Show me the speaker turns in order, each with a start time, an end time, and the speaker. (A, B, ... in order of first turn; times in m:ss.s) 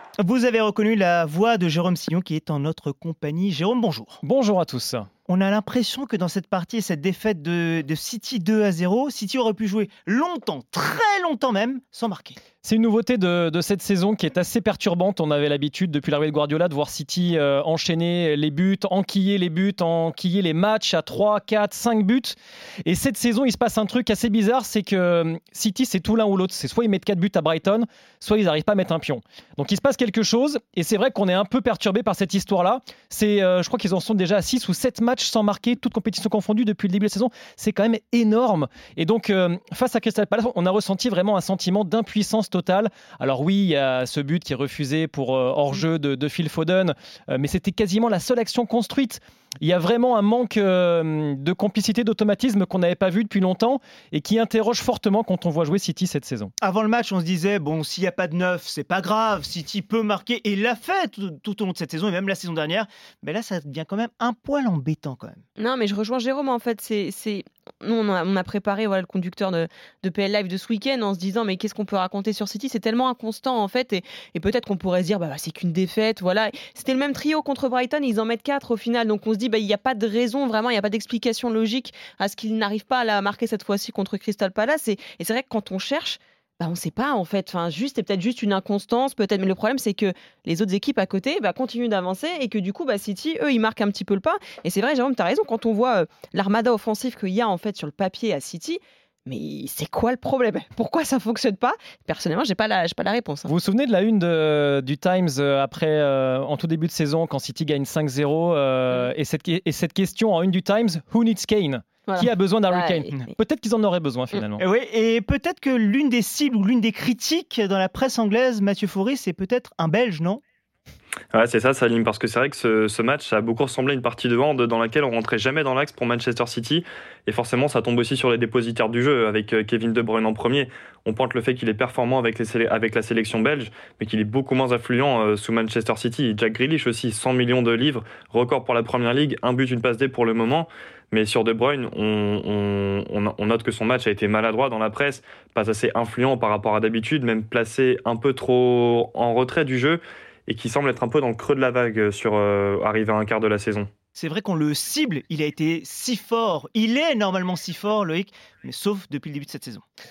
0:00.2-0:04.2 A
0:04.2-0:05.1 B
0:05.3-0:12.4 A
0:12.6-0:56.5 B
0:56.6-1:05.4 A
1:05.6-1:43.5 C
1:43.5-1:54.6 B
1:52.1-1:53.2 C
1:54.6-2:00.4 A
2:01.3-2:33.9 D
2:34.1-2:39.8 A